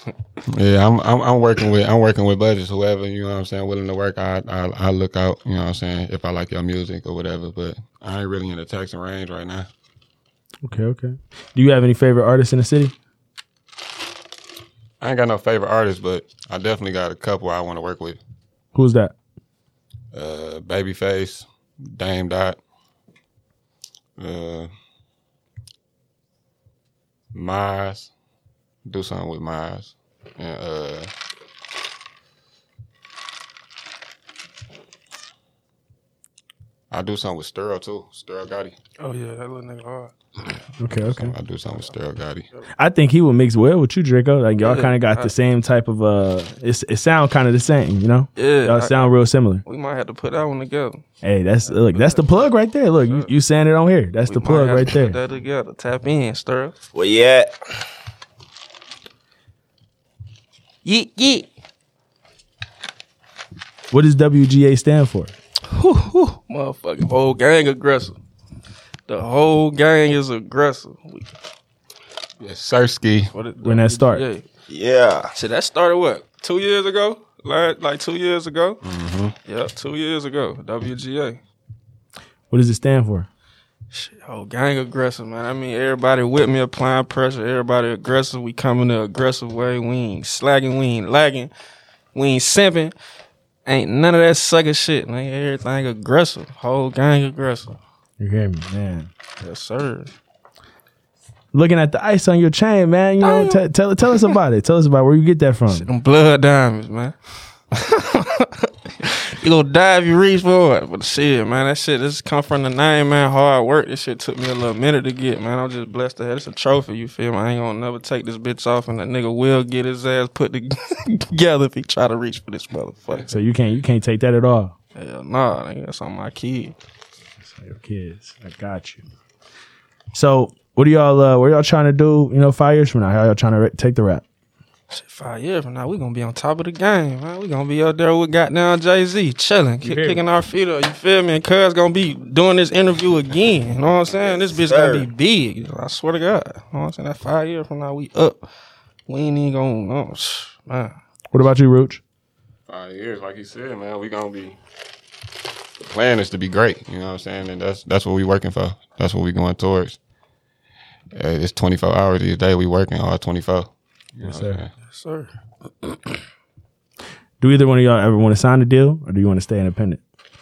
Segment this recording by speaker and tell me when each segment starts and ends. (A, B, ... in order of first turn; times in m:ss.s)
0:00.5-0:09.7 A
0:10.6-0:12.9 B
0:15.0-0:18.2 A
0:18.7-0:19.1 B
0:20.1-0:22.6 A
0:24.2-0:24.7 A
0:27.3-0:28.1 A
0:28.9-0:31.1 A
0:36.9-0:38.8 A
0:39.0-0:40.1 C
0:40.8-0:41.4 B
0:41.0-0:42.5 A
0:42.8-0:49.6 B
0:44.6-0:45.3 C
0:48.4-0:49.1 C
0:49.6-0:51.0 C
0:51.2-0:55.2 B
0:51.6-0:53.3 C
0:54.3-0:56.8 C
0:56.9-0:57.5 D
1:00.8-1:01.5 C
1:03.9-1:05.3 B
1:05.7-1:08.2 C
1:09.1-1:11.3 C
1:12.4-1:13.3 A
1:13.3-1:14.5 C
1:13.6-1:14.2 B
1:14.7-1:15.3 D
1:15.4-1:18.8 C
1:18.8-1:19.4 A
1:19.5-1:21.4 C
1:22.5-1:23.3 B
1:23.9-1:31.5 C
1:32.2-1:32.9 C
1:33.7-1:37.8 C
1:38.2-1:39.1 B
1:39.4-1:40.1 C
1:41.5-1:45.9 B
1:43.2-1:43.6 C
1:45.7-1:47.2 C
1:47.7-2:03.3 C
2:03.3-2:04.8 B
2:05.0-2:06.8 C
2:07.4-2:09.0 B
2:10.1-2:14.2 B
2:14.9-2:28.4 C
2:19.8-2:20.2 B
2:24.5-2:25.1 D
2:29.1-2:30.9 C
2:31.3-2:32.0 B
2:32.7-2:34.6 A
2:35.8-2:40.0 A
2:41.1-2:44.7 A
2:44.2-2:44.6 B
2:44.9-2:45.3 C
2:47.4-2:50.0 B